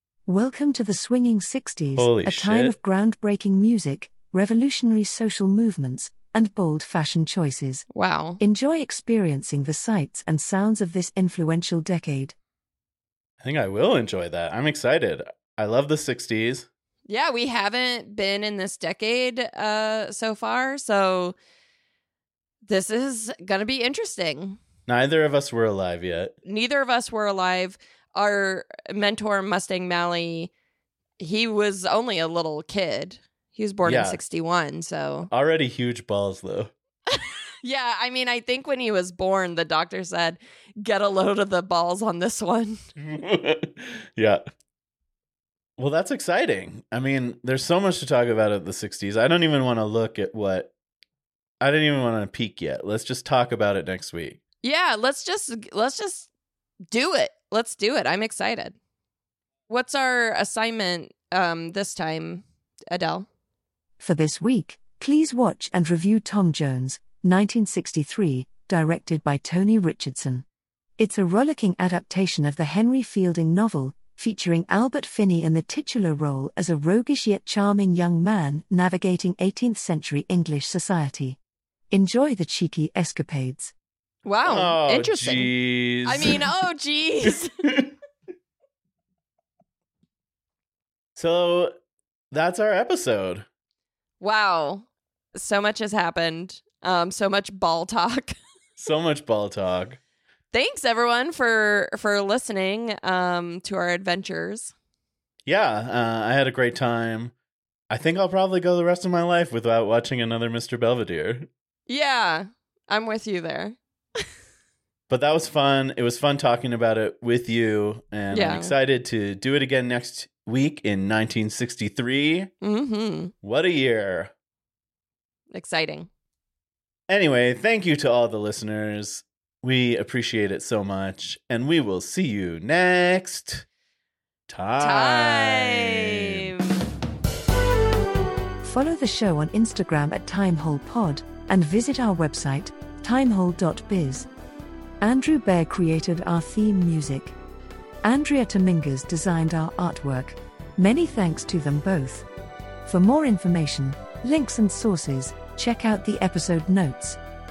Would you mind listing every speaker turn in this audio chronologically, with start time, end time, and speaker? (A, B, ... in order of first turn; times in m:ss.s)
0:00.2-0:07.8 A
0:02.0-0:02.7 B
0:07.9-0:08.4 C
0:08.4-0:12.3 A
0:13.4-0:16.7 B
0:17.1-0:21.3 C
0:22.6-0:24.6 C
0:24.9-0:26.3 B
0:26.4-0:30.5 C
0:31.2-0:35.3 C
0:33.8-0:34.2 B
0:35.3-0:36.7 B
0:37.1-0:42.8 C
0:43.0-0:44.4 B
0:45.8-0:50.7 B
0:51.6-0:54.4 B
0:54.6-0:56.3 C
0:56.9-0:58.7 C
0:59.7-1:03.3 C
1:04.0-1:10.4 A
1:11.0-1:21.4 A
1:21.9-1:23.7 A
1:24.2-1:25.5 C
1:24.4-1:26.5 B
1:26.0-1:27.5 C
1:27.2-1:27.9 B
1:31.2-1:31.7 B
1:32.3-1:33.4 B
1:34.2-1:38.4 C
1:38.8-1:40.0 B
1:40.5-1:44.7 C
1:45.4-1:47.3 B
1:47.9-1:51.5 B
1:51.9-1:54.2 C
1:55.1-2:02.5 B
1:58.3-1:58.7 C
2:02.6-2:03.3 C
2:03.4-2:04.3 B
2:05.5-2:06.1 C
2:07.1-2:13.6 B
2:14.5-2:16.5 B
2:14.8-2:16.7 C
2:18.6-2:24.3 A
2:25.0-2:27.4 A
2:28.0-2:32.3 A
2:32.8-2:37.2 A